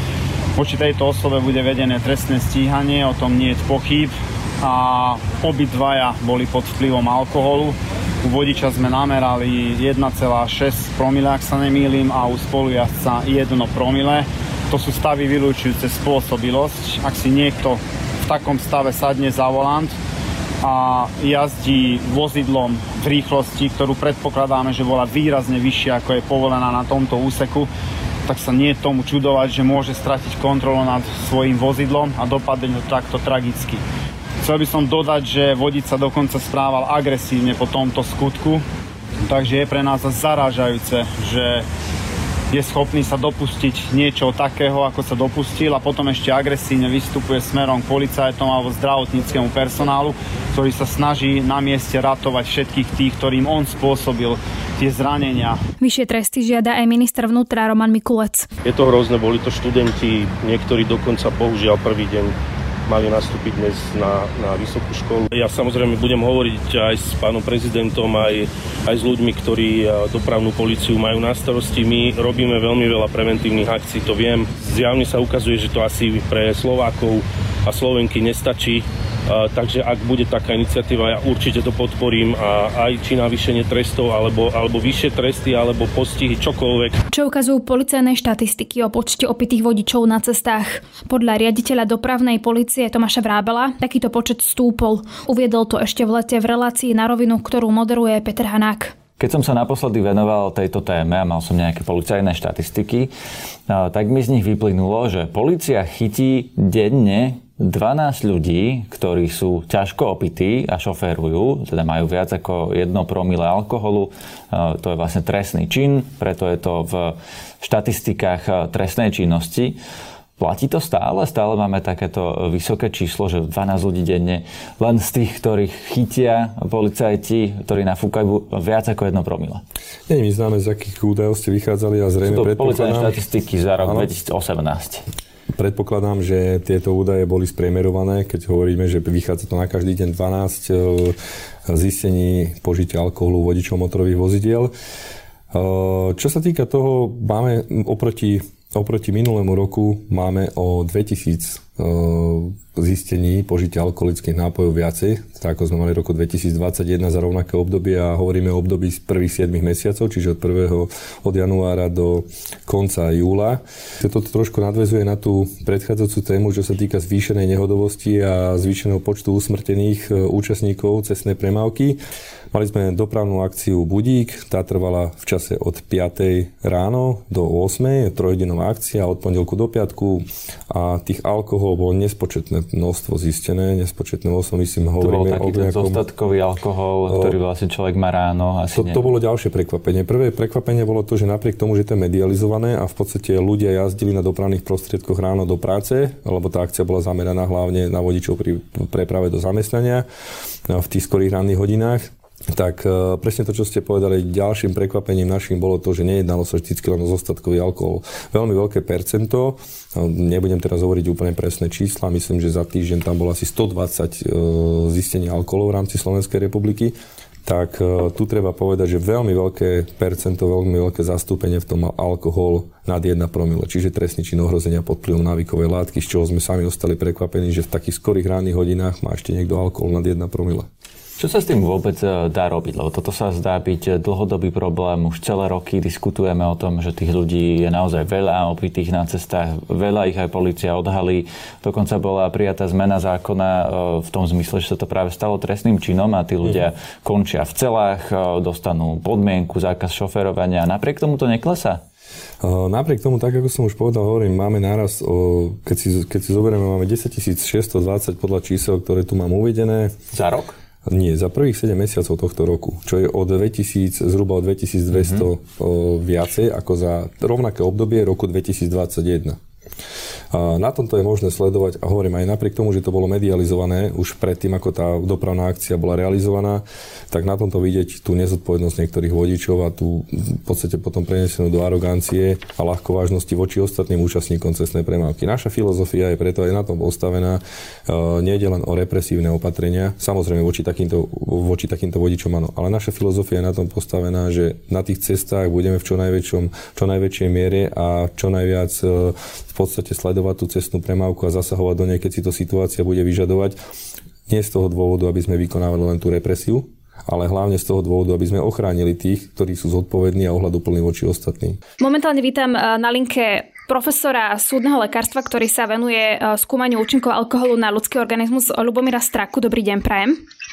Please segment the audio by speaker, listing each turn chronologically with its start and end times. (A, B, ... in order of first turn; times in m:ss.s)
0:00.6-0:19.9 A
0:20.6-0:27.7 A
0:28.2-0:33.8 A
0:34.4-0:38.6 A
0:39.2-0:41.6 A
0:42.5-0:55.6 A
0:55.8-0:58.5 B
0:58.6-1:02.3 C
1:02.9-1:27.0 C
1:27.1-1:38.9 B
1:39.2-1:43.1 D
1:43.7-1:59.8 D
2:00.4-2:09.6 D
2:10.1-2:13.2 E
2:12.2-2:15.0 D
2:13.8-2:14.1 E
2:15.5-2:21.2 E
2:21.7-2:24.7 E
2:25.5-2:52.0 E
2:52.5-3:06.0 E
3:05.0-3:09.1 D
3:07.1-3:07.4 E
3:08.7-3:20.0 E
3:20.7-3:50.7 E
3:51.2-4:11.8 D
4:12.4-4:20.0 E
4:20.1-4:20.5 D
4:20.8-4:29.4 E
4:25.0-4:25.2 D
4:30.3-5:03.6 E
5:04.3-5:11.6 E
5:11.8-5:20.2 B